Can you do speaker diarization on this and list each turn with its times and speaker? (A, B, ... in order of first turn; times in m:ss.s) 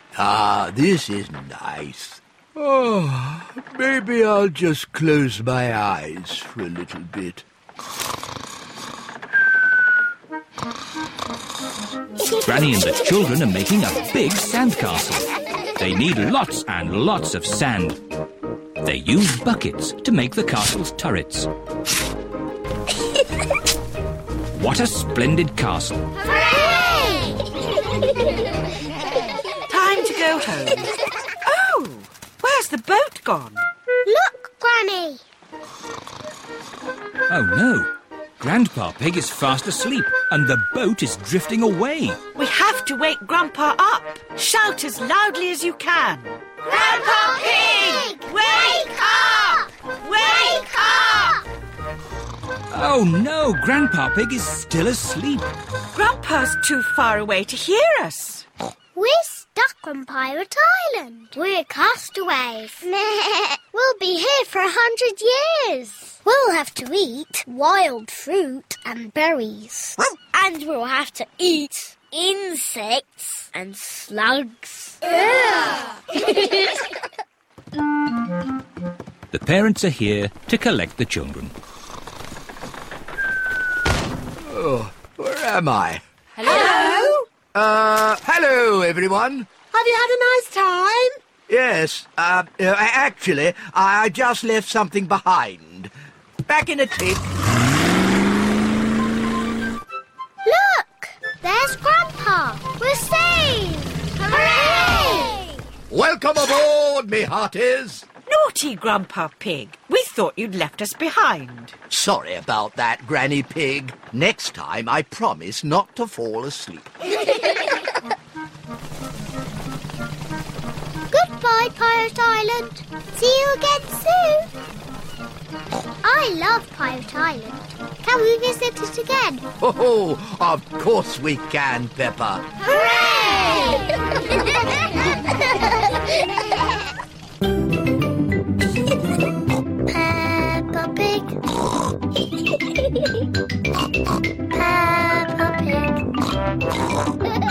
0:00.1-0:07.4 A
0:12.4-0:18.0 B
0:18.8-0:21.5 B
0:24.5-0:26.1 B
0:26.3-0:27.4 C
0:29.7-0:30.9 D
0:31.4-0:33.7 D
0:34.0-0:35.2 C
0:37.3-0:42.2 B
0:42.3-0:51.4 D
0:46.7-0:49.7 C
0:50.2-0:51.4 C
0:52.7-0:55.5 B
0:55.9-0:58.4 D
0:58.9-1:16.8 C
1:19.3-1:21.5 B
1:24.4-1:26.0 A
1:26.4-1:27.2 D
1:27.5-1:29.5 A
1:29.7-1:31.1 D
1:31.5-1:35.9 A
1:36.5-1:37.2 A
1:40.4-1:45.6 C
1:45.9-1:48.0 A
1:48.3-1:51.7 D
1:51.9-1:56.9 A
2:01.1-2:04.5 C
2:06.0-2:09.4 C
2:09.6-2:12.4 A
2:12.7-2:14.6 C
2:15.2-2:15.7 C
2:19.9-2:21.4 C
2:24.5-2:26.0 C